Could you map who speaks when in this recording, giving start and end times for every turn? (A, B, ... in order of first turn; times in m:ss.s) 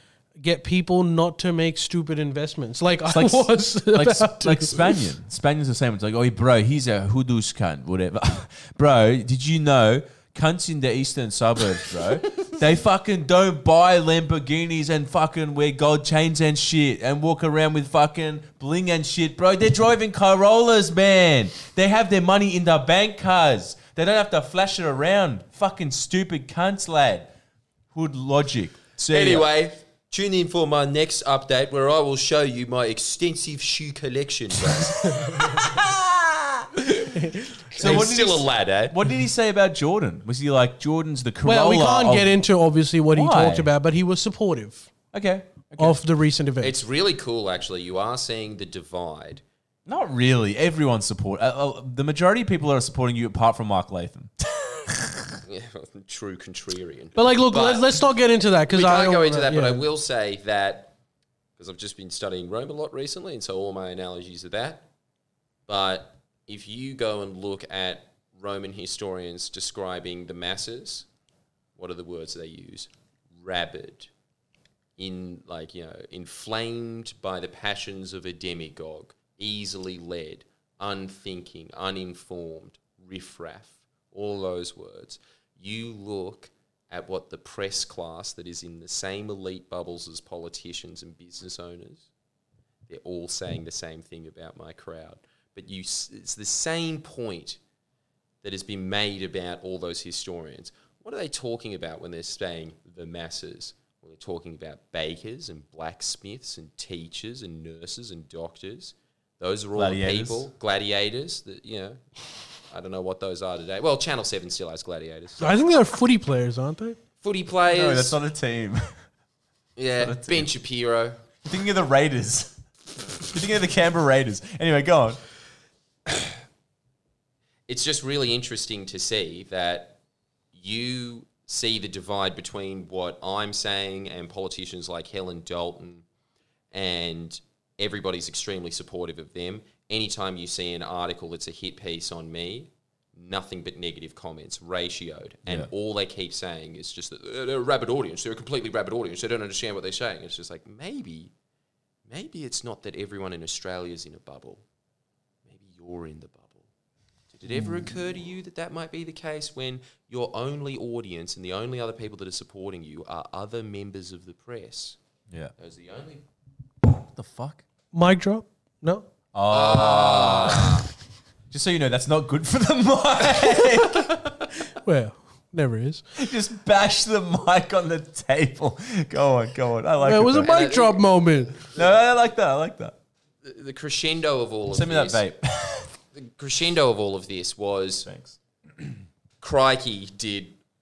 0:00.4-0:05.0 A
0:03.1-0:27.3 B
0:27.9-0:29.5 B
0:29.1-0:36.0 C
0:35.6-0:36.0 B
0:36.9-0:37.2 C
0:37.0-0:37.7 A
0:37.7-0:39.0 C
0:37.8-0:42.3 B
0:41.4-0:44.9 A
0:43.1-0:43.7 B
0:45.1-0:46.0 B
0:45.8-0:46.8 A
0:46.6-0:49.4 C
0:49.9-0:55.4 B
0:55.5-0:58.0 C
0:57.2-0:59.9 A
0:58.7-1:00.9 C
1:01.6-1:04.8 C
1:05.7-1:11.1 C
1:11.8-1:14.1 C
1:15.0-1:32.1 C
1:32.9-1:37.6 C
1:38.4-1:52.0 C
1:49.8-1:50.5 B
1:52.7-1:55.6 C
1:55.4-1:57.0 A
1:57.2-1:58.2 C
1:57.7-1:59.0 B
1:59.8-2:01.2 C
2:00.0-2:00.5 B
2:01.4-2:02.6 B
2:03.2-2:05.2 B
2:07.7-2:10.0 C
2:10.5-2:16.0 C
2:16.7-2:31.3 C
2:25.5-2:25.7 B
2:32.1-2:34.6 C
2:35.5-2:36.7 C
2:37.3-2:45.0 C
2:37.5-2:37.9 B
2:45.6-2:46.2 C
2:46.9-2:47.6 B
2:47.9-2:49.1 A
2:49.3-2:50.9 B
2:49.5-2:50.9 C
2:51.5-2:54.2 B
2:53.8-2:54.1 C
2:54.8-2:56.1 A
2:56.2-3:00.7 B
3:00.0-3:01.6 A
3:00.4-3:01.2 C
3:01.7-3:03.0 B
3:03.4-3:05.2 C
3:04.7-3:05.9 B
3:06.2-3:08.1 C
3:08.0-3:08.4 B
3:09.4-3:10.6 C